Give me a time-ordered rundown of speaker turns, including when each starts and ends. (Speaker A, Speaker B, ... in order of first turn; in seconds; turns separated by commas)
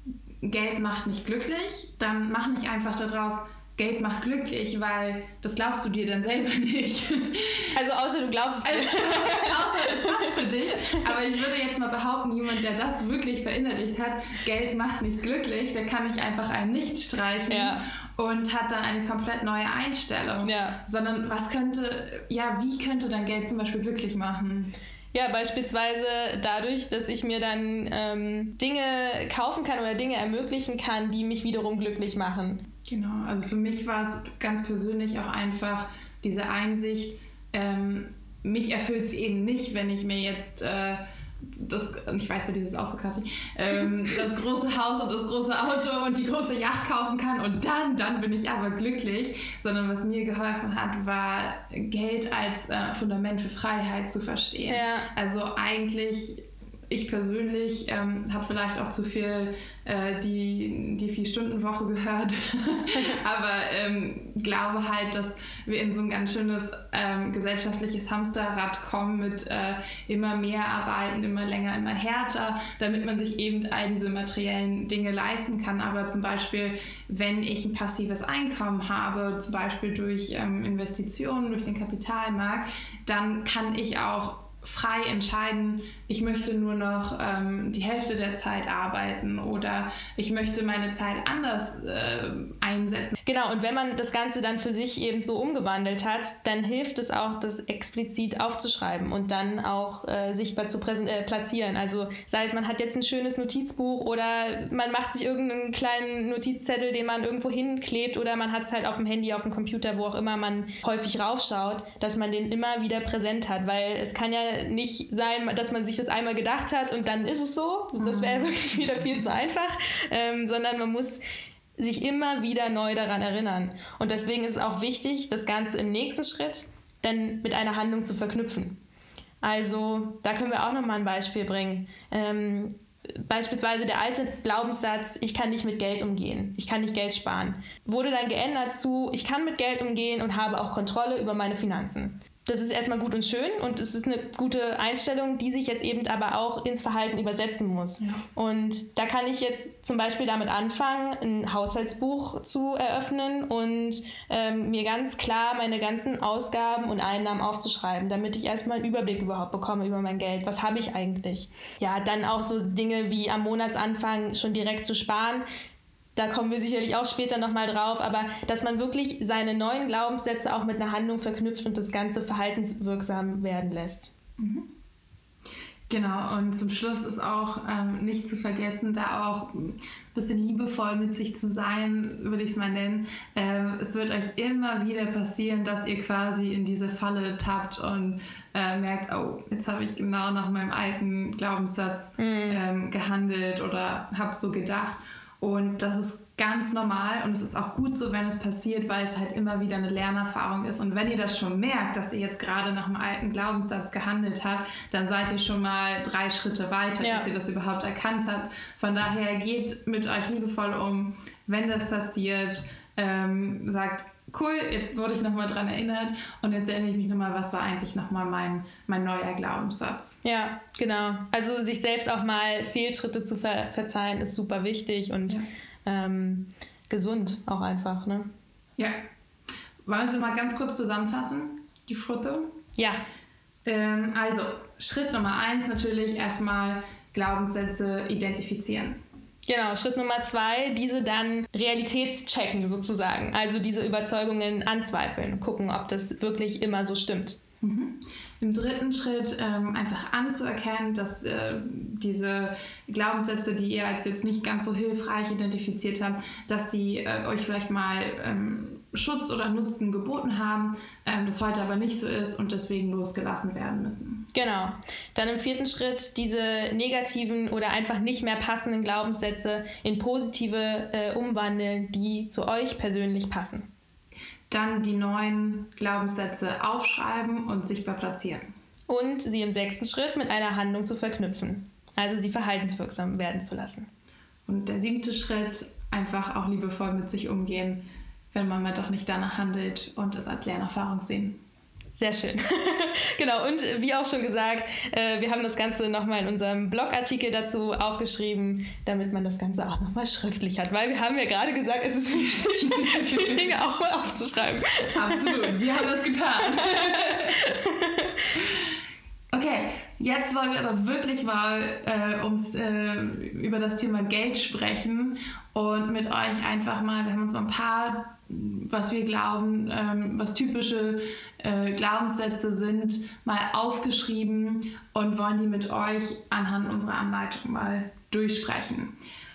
Speaker A: 0.4-7.7, Speaker B: 7.7-10.4, Speaker A: 8.6-24.7, Speaker B: 17.5-17.8, Speaker B: 20.4-20.8, Speaker B: 25.1-32.6, Speaker A: 32.9-93.2, Speaker B: 54.7-55.1, Speaker B: 93.2-121.2, Speaker A: 118.0-119.1, Speaker B: 121.8-128.8, Speaker B: 129.4-165.4, Speaker B: 166.2-174.1, Speaker A: 174.4-174.7, Speaker A: 175.9-220.2, Speaker B: 192.2-192.6, Speaker B: 207.0-207.3, Speaker B: 220.2-228.3, Speaker A: 229.8-232.5, Speaker B: 232.8-233.0, Speaker A: 233.7-239.0, Speaker B: 239.4-247.4, Speaker A: 247.6-264.3, Speaker B: 264.3-273.7, Speaker A: 274.5-278.5, Speaker B: 278.9-283.9, Speaker A: 284.5-291.4, Speaker B: 292.0-305.5, Speaker A: 302.2-303.5, Speaker A: 304.9-307.4, Speaker B: 306.5-308.4, Speaker A: 308.4-308.6, Speaker A: 309.3-328.9